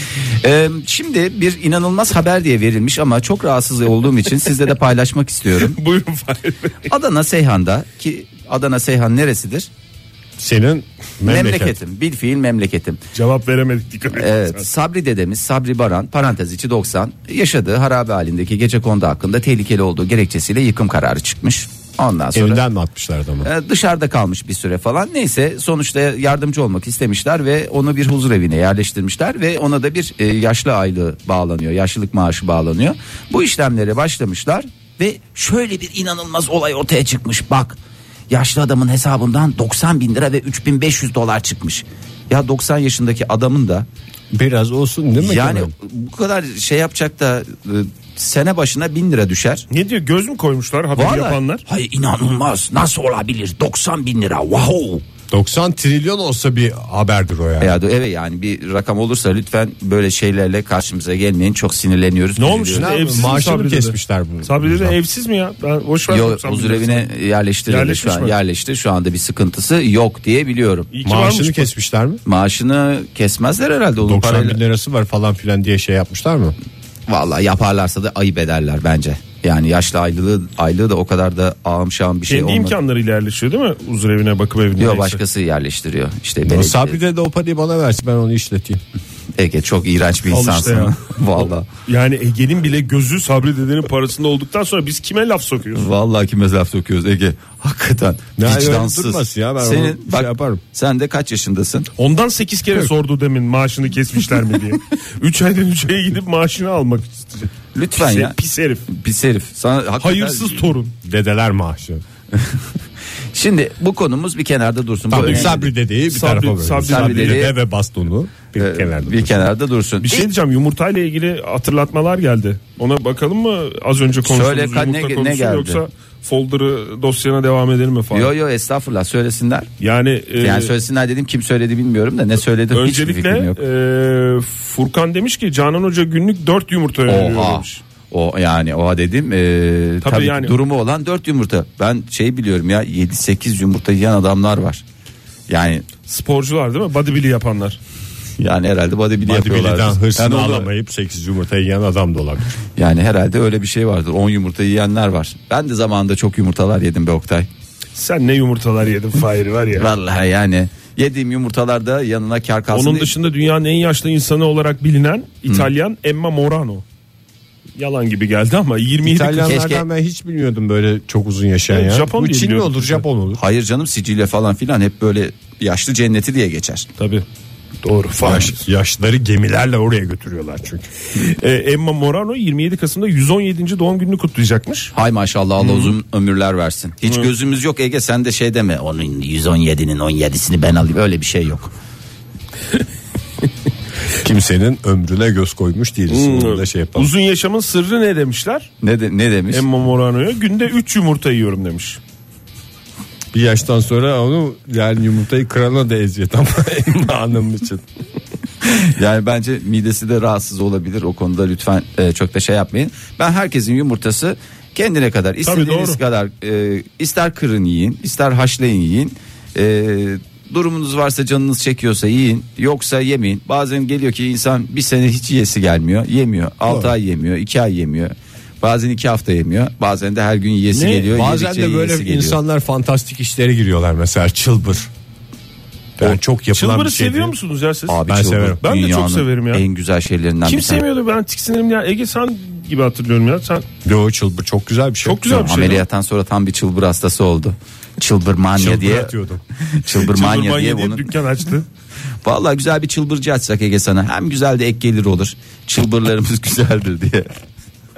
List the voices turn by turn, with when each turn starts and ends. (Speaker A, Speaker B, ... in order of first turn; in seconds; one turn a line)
Speaker A: 0.3-5.8
Speaker B: 5.5-6.9
Speaker A: 6.9-9.7
Speaker C: 10.4-11.8
Speaker A: 11.2-13.0
Speaker B: 13.1-14.7
Speaker A: 14.1-22.6
Speaker C: 22.3-23.5
Speaker A: 23.4-37.8
Speaker A: 38.3-43.9
Speaker C: 44.3-45.7
Speaker A: 45.2-49.7
Speaker B: 49.7-51.6
Speaker A: 51.0-55.0
Speaker C: 55.3-57.8
Speaker A: 57.6-62.9
Speaker B: 62.4-67.1
Speaker C: 62.7-65.0
Speaker A: 66.1-70.9
Speaker B: 67.7-68.4
Speaker B: 70.9-71.7
Speaker C: 71.0-72.2
Speaker A: 72.2-74.6
Speaker C: 74.0-76.5
Speaker A: 77.1-82.8
Speaker B: 82.3-85.2
Speaker A: 84.8-87.0
Speaker C: 86.5-88.8
Speaker A: 89.4-91.7
Speaker B: 90.3-95.9
Speaker A: 95.8-101.9
Speaker C: 98.4-100.6
Speaker B: 102.0-108.9
Speaker A: 107.7-108.3
Speaker A: 108.9-110.7
Speaker B: 110.0-110.9
Speaker C: 111.0-112.0
Speaker A: 113.3-115.7
Speaker C: 115.1-119.5
Speaker B: 115.2-115.6
Speaker B: 116.1-117.5
Speaker A: 116.8-117.5
Speaker A: 118.6-120.3
Speaker B: 120.0-128.3
Speaker A: 124.2-125.8
Speaker A: 128.1-129.7
Speaker B: 129.8-130.7
Speaker A: 130.4-133.6
Speaker B: 132.7-137.8
Speaker A: 137.1-144.8
Speaker B: 140.0-140.6
Speaker A: 145.5-145.9
Speaker B: 146.1-147.8
Speaker A: 148.4-150.7
Speaker C: 149.2-152.5
Speaker A: 152.8-157.5
Speaker B: 157.9-159.9
Speaker A: 159.8-163.1
Speaker B: 162.7-166.8
Speaker B: 167.8-169.6
Speaker C: 169.0-173.4
Speaker A: 169.5-169.8
Speaker B: 171.7-173.0
Speaker A: 173.4-176.9
Speaker B: 177.0-177.2
Speaker B: 177.8-178.6
Speaker C: 178.2-180.9
Speaker B: 181.2-184.9
Speaker A: 184.9-191.7
Speaker B: 185.6-185.9
Speaker C: 194.2-197.1
Speaker B: 196.1-198.7
Speaker A: 198.8-199.7
Speaker B: 199.5-202.0
Speaker C: 203.3-207.8
Speaker A: 208.7-232.4
Speaker B: 215.4-216.0
Speaker B: 230.7-231.1
Speaker C: 231.1-234.9
Speaker C: 236.0-237.3
Speaker B: 236.0-238.0
Speaker A: 237.9-240.8
Speaker C: 238.1-238.6
Speaker B: 238.6-239.6
Speaker B: 240.4-243.7
Speaker C: 243.8-245.4
Speaker B: 245.0-245.8
Speaker A: 245.3-249.1
Speaker C: 248.5-249.4
Speaker A: 249.7-251.1
Speaker B: 249.9-251.7
Speaker A: 252.2-257.4